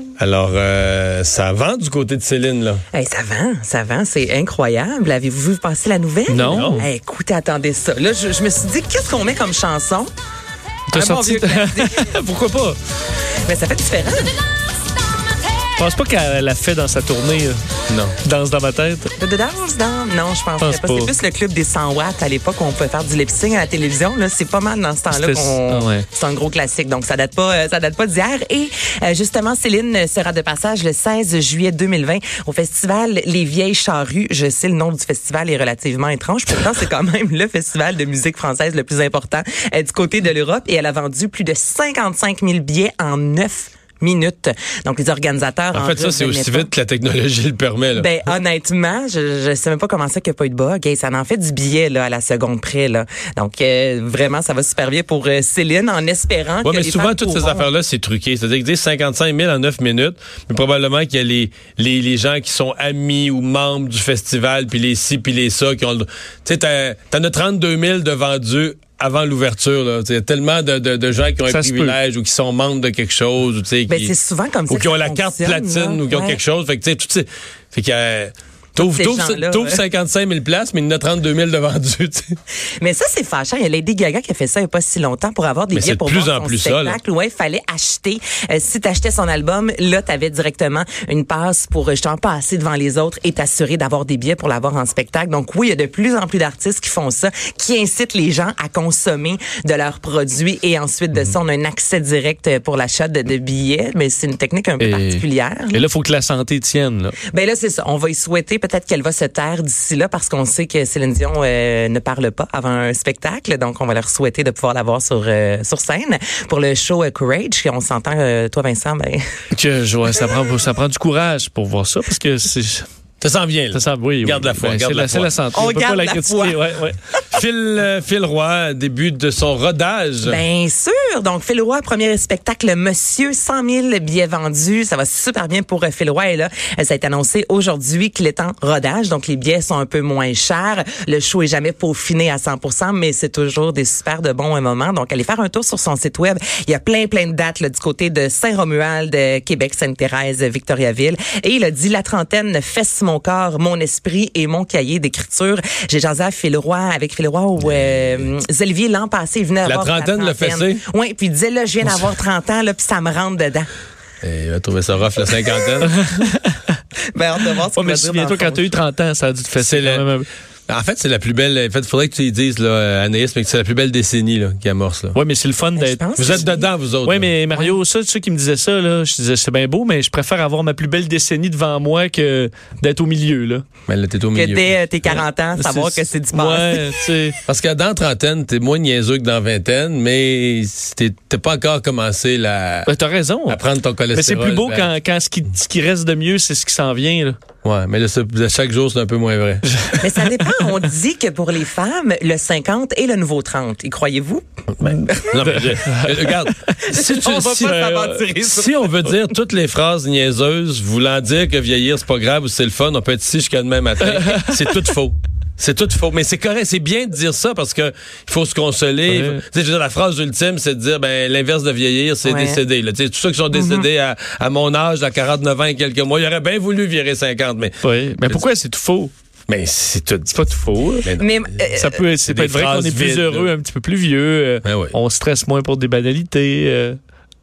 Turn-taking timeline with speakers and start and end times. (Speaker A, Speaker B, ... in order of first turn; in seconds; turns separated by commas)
Speaker A: 0.2-2.8, Speaker B: 2.9-10.1, Speaker C: 6.3-6.8, Speaker A: 6.4-6.8, Speaker C: 10.9-12.8, Speaker B: 11.0-12.0, Speaker B: 13.5-14.3, Speaker C: 15.8-17.6, Speaker A: 17.9-18.1, Speaker C: 18.1-19.1, Speaker B: 19.2-46.7, Speaker C: 20.6-21.1, Speaker C: 25.1-26.1, Speaker A: 45.7-48.1, Speaker B: 48.0-57.7, Speaker A: 56.6-74.1, Speaker C: 71.5-72.0, Speaker B: 73.9-76.4, Speaker A: 74.7-82.3, Speaker B: 78.8-79.8, Speaker B: 82.8-105.8, Speaker A: 85.7-87.0, Speaker C: 104.8-107.2, Speaker B: 107.4-119.2, Speaker C: 119.5-122.9, Speaker A: 123.2-125.3, Speaker C: 123.7-127.0, Speaker B: 125.5-126.6, Speaker A: 127.3-130.4, Speaker B: 130.2-163.7, Speaker A: 159.6-160.8, Speaker A: 164.2-166.0, Speaker C: 165.8-166.8, Speaker B: 167.1-168.7, Speaker C: 167.6-170.3, Speaker A: 169.6-170.1, Speaker A: 170.7-175.2, Speaker C: 175.1-176.4, Speaker B: 175.8-176.7, Speaker A: 176.2-177.3, Speaker C: 177.0-183.6, Speaker A: 183.9-184.7, Speaker B: 184.3-186.8, Speaker C: 185.1-187.4, Speaker A: 187.5-192.9, Speaker C: 192.8-197.4, Speaker A: 193.5-194.9, Speaker A: 197.6-199.7, Speaker C: 199.8-200.5, Speaker B: 200.0-205.4, Speaker A: 204.8-228.4, Speaker C: 205.4-206.8, Speaker B: 206.9-209.1, Speaker C: 207.6-208.4, Speaker C: 214.1-214.8, Speaker C: 219.1-219.4, Speaker B: 222.2-222.6, Speaker B: 223.5-223.9, Speaker C: 227.8-229.1, Speaker A: 229.5-230.3, Speaker C: 230.3-231.1, Speaker A: 231.0-231.4, Speaker B: 231.2-231.9, Speaker C: 231.7-237.0, Speaker A: 232.3-233.5, Speaker A: 234.6-234.9